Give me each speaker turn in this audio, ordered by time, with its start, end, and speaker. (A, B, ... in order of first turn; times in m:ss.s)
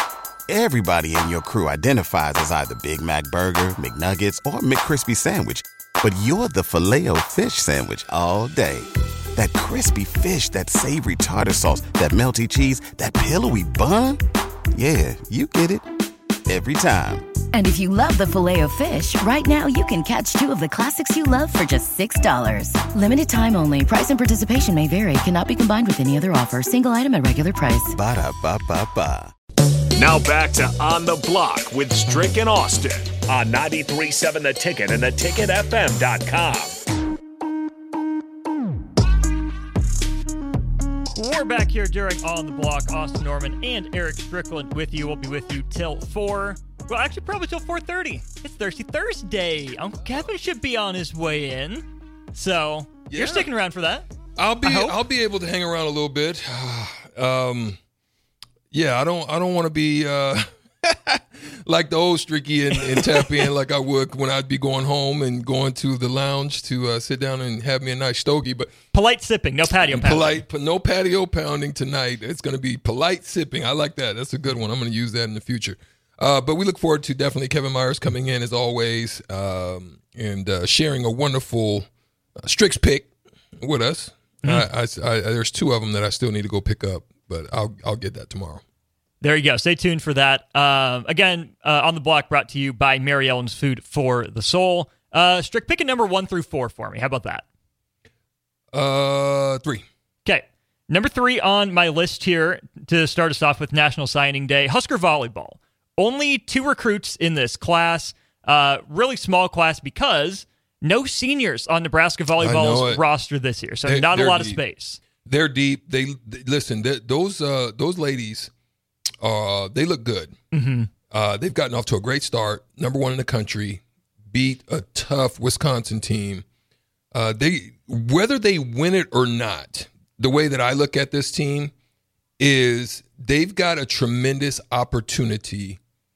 0:00.5-0:14.2 A
0:14.7-0:15.8 A
0:16.5-0:17.4 A
0:17.5-0:27.9 B
0:27.9-0:29.3 A
0:29.9-0:36.8 C
0:41.1-0:54.1 D
0:53.1-0:53.5 E
0:54.4-0:57.8 E
0:54.6-0:55.0 D
0:58.7-1:08.7 E
1:02.9-1:03.2 D
1:08.9-1:10.4 D
1:09.8-1:21.9 E
1:22.4-1:28.6 E
1:29.2-1:37.4 D
1:38.7-1:39.8 E
1:40.2-1:55.0 D
1:52.4-1:53.0 E
1:53.8-1:54.6 E
1:55.2-1:58.5 E
1:59.2-2:00.3 E
2:00.5-2:00.9 D
2:01.1-2:06.4 E
2:07.1-2:11.7 E
2:12.4-2:15.8 E